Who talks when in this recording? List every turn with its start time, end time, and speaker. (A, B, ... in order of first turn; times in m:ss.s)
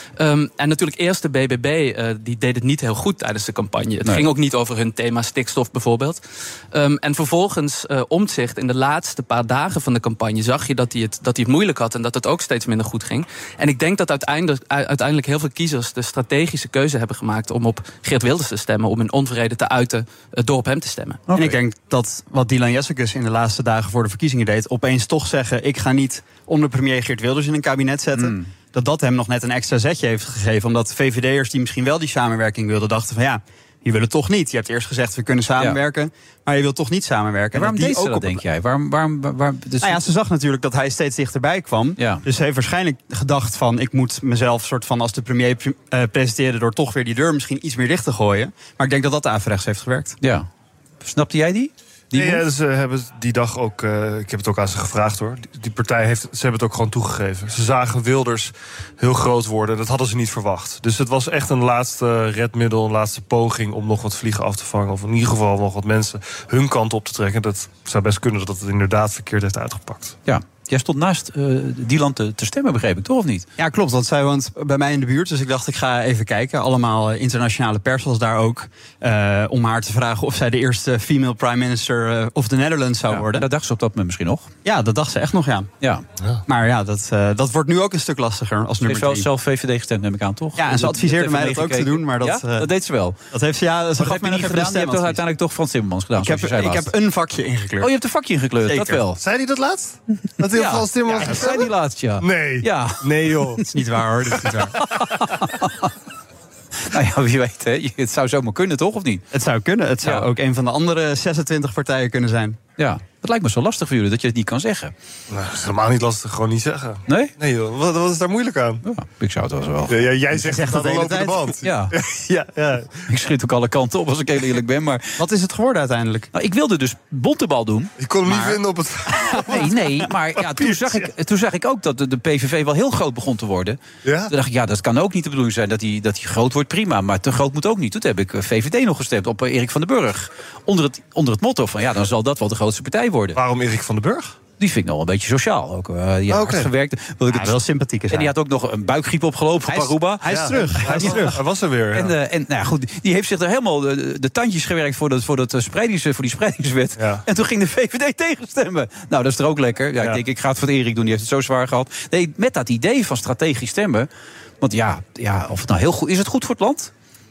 0:00.2-0:06.2 A
0:06.7-0:21.2 A
0:21.3-0:21.6 B
0:21.3-0:38.4 C
0:28.2-0:28.5 B
0:37.5-0:40.0 B
0:39.8-0:50.2 C
0:42.0-0:42.2 B
0:50.2-0:50.5 B
0:51.0-0:52.4 B
0:52.1-1:10.2 D
1:10.2-1:13.5 B
1:13.6-1:23.5 C
1:23.1-1:24.5 B
1:24.6-1:25.7 C
1:26.5-1:29.3 C
1:28.8-1:33.2 B
1:30.6-1:32.7 C
1:33.3-1:35.2 C
1:34.0-1:36.9 B
1:36.2-1:37.9 C
1:37.8-1:39.2 B
1:38.7-1:39.0 C
1:39.2-1:43.6 D
1:40.5-1:43.3 B
1:43.7-1:44.7 C
1:44.4-1:45.9 B
1:46.9-1:49.2 B
1:49.3-1:52.6 C
1:52.8-1:54.9 B
1:55.3-1:58.8 D
1:58.8-2:00.0 B
1:59.9-2:03.0 D
2:00.3-2:01.5 C
2:01.6-2:01.9 B
2:03.1-2:05.1 B
2:05.2-2:06.3 C
2:06.3-2:07.9 B
2:08.0-2:11.1 D
2:08.2-2:08.6 C
2:09.4-2:23.4 B
2:14.0-2:14.3 D
2:23.3-2:24.4 D
2:24.6-2:27.6 B
2:26.3-2:26.7 D
2:27.3-2:28.3 C
2:28.1-2:31.3 B
2:29.7-2:31.4 C
2:30.2-2:32.1 D
2:31.9-2:44.1 B
2:37.0-2:37.2 D
2:44.6-2:46.9 B